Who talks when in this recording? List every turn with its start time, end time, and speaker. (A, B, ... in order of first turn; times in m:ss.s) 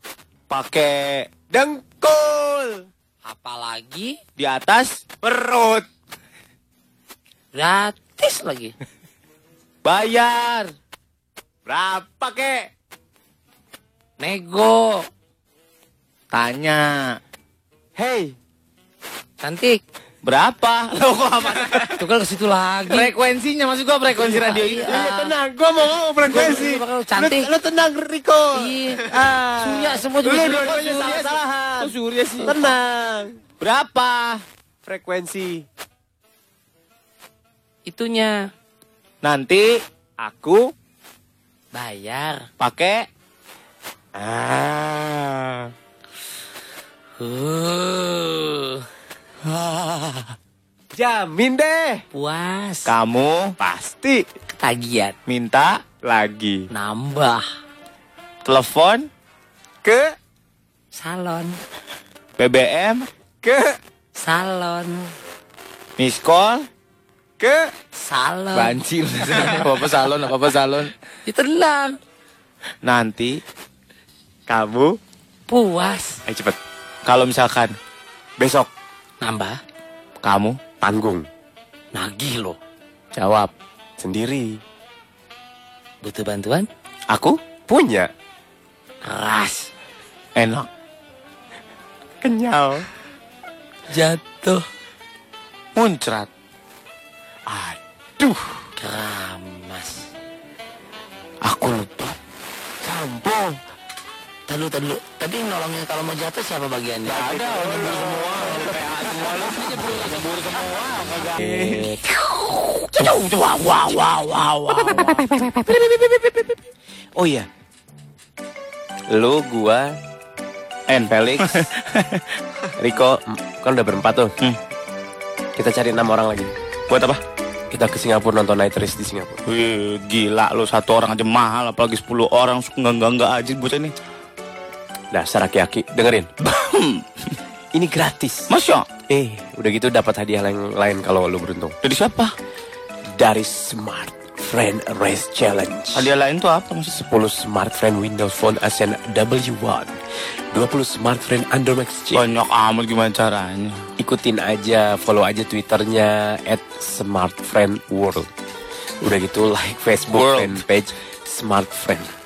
0:00.5-0:01.3 A
0:01.5-0:02.8 B
0:03.3-0:04.2 C
0:04.4-0:05.0 A
0:05.2-0:05.9 B
0:07.5-0:08.7 C
0:09.8-0:10.7 A
0:11.7-0:12.7 B
0:14.2-0:15.1 C
0:16.3-0:17.2 A
0:18.0-0:18.4 B
0:19.4-0:19.8 C
0:20.2-0:22.0 A
0:22.0-0:23.1 C
0:22.9-0:25.0 A
0:24.1-0:25.3 C
0:24.8-0:33.4 B
0:26.3-0:27.5 C
0:28.5-0:29.1 C
0:29.6-0:31.2 C
0:30.3-0:32.6 A
0:33.6-0:34.4 A
0:34.8-0:35.7 B
0:37.9-0:38.4 C
0:39.2-0:39.8 A
0:40.2-0:40.7 B
0:41.7-0:42.5 C
0:42.6-0:43.1 A
0:44.2-0:45.7 B
0:47.2-0:48.8 C
0:49.4-0:50.4 A
0:50.9-0:52.0 B
0:52.1-0:52.9 C
0:52.9-0:53.6 A
0:53.6-0:54.2 B
0:54.5-0:55.2 C
0:55.3-0:55.8 A
0:56.0-0:56.7 B
0:56.7-0:57.5 C
0:58.4-0:59.1 A
0:59.8-1:00.1 B
1:00.9-1:01.6 C
1:02.4-1:03.1 A
1:03.4-1:03.8 B
1:04.2-1:05.1 C
1:06.0-1:06.7 A
1:07.4-1:07.7 B
1:08.0-1:08.8 C
1:08.5-1:10.9 A
1:11.3-1:12.0 C
1:12.8-1:13.4 A
1:14.5-1:15.0 B
1:15.5-1:16.2 C
1:16.3-1:16.6 B
1:17.1-1:17.8 A
1:18.4-1:18.7 B
1:19.2-1:19.6 C
1:20.2-1:20.6 A
1:20.8-1:21.3 B
1:21.9-1:22.6 C
1:23.2-1:23.5 A
1:24.0-1:24.6 B
1:26.0-1:26.7 C
1:27.1-1:27.4 A
1:27.7-1:28.1 B
1:29.0-1:29.7 C
1:30.4-1:30.7 A
1:32.2-1:32.9 B
1:33.9-1:34.6 C
1:35.8-1:36.3 A
1:37.5-1:38.4 B
1:38.8-1:40.0 C
1:41.4-1:42.2 A
1:42.8-1:43.6 A
1:44.5-1:48.2 C
1:47.1-1:51.9 A
1:47.8-1:48.2 B
1:49.5-1:50.2 C
1:51.4-1:51.9 B
1:51.8-1:55.2 C
1:55.4-1:56.0 B
1:57.2-1:57.5 B
1:59.1-1:59.9 B
2:00.9-2:02.2 A
2:01.1-2:01.7 B
2:02.8-2:04.3 B
2:05.6-2:06.5 B
2:06.9-2:07.2 A
2:07.7-2:09.4 B
2:09.5-2:13.9 A
2:15.1-2:16.3 B
2:16.4-2:17.4 A
2:17.7-2:18.5 B
2:18.5-2:18.9 A
2:19.1-2:21.8 B
2:21.8-2:22.3 A
2:23.2-2:26.1 B
2:26.0-2:27.0 A
2:26.9-2:30.0 B
2:30.5-2:32.2 B
2:32.1-2:33.8 A
2:34.0-2:38.3 B
2:39.0-2:42.1 B
2:40.1-2:40.6 A